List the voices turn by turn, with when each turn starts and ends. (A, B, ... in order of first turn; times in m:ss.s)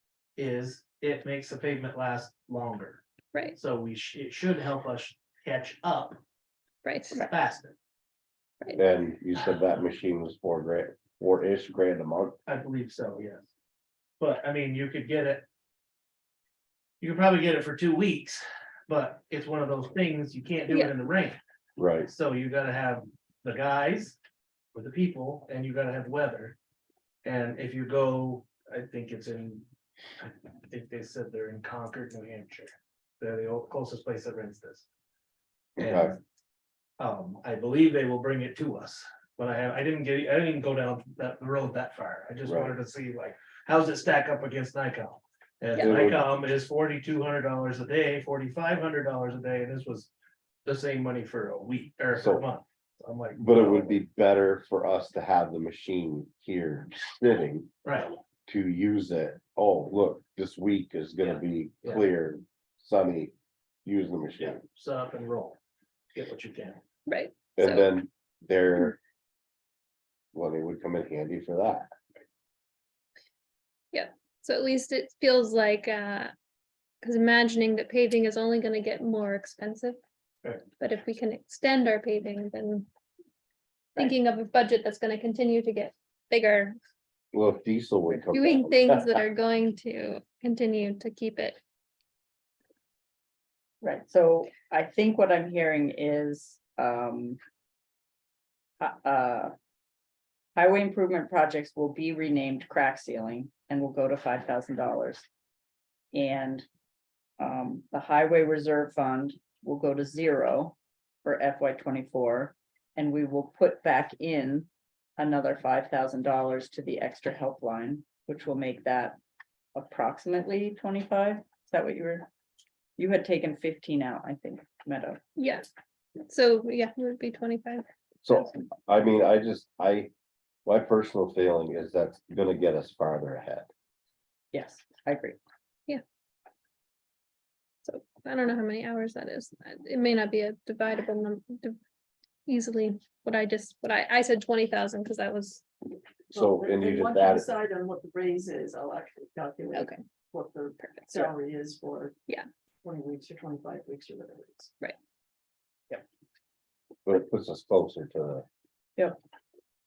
0:00.4-0:03.0 A
0:03.6-0:06.2 A
0:06.8-0:07.3 B
0:07.1-0:07.7 A
0:08.8-0:12.4 C
0:12.5-0:13.5 A
0:14.2-0:15.4 A
0:17.0-0:21.4 A
0:21.8-0:22.1 C
0:22.0-0:24.2 A
0:24.7-0:26.6 A
0:27.2-0:29.7 A
0:30.2-0:34.8 A
0:35.8-0:36.2 C
0:35.8-0:36.2 A
0:37.0-0:50.1 A
0:42.4-0:42.7 C
0:45.8-0:46.2 C
0:50.6-0:54.0 A
0:52.2-0:52.4 C
0:53.4-0:57.7 C
0:57.8-0:58.2 A
0:58.5-1:03.3 C
1:03.8-1:04.6 C
1:04.4-1:05.6 A
1:06.1-1:06.8 A
1:07.1-1:07.9 B
1:07.6-1:09.0 C
1:10.3-1:11.9 C
1:13.9-1:16.3 B
1:17.0-1:20.0 B
1:20.8-1:22.9 B
1:24.0-1:26.8 B
1:27.3-1:29.1 C
1:28.3-1:31.6 B
1:33.8-1:37.4 D
1:38.8-1:39.5 D
1:40.6-1:45.2 D
1:46.1-1:46.7 D
1:47.4-1:59.2 D
1:59.8-2:02.3 D
2:03.0-2:05.2 D
2:05.4-2:07.8 B
2:08.2-2:10.1 C
2:10.6-2:13.7 C
2:14.5-2:15.4 D
2:17.8-2:21.8 B
2:22.5-2:25.6 B
2:26.3-2:32.2 E
2:26.3-2:27.5 C
2:29.7-2:30.0 B
2:30.8-2:31.2 B
2:32.8-2:34.8 E
2:37.1-2:38.4 C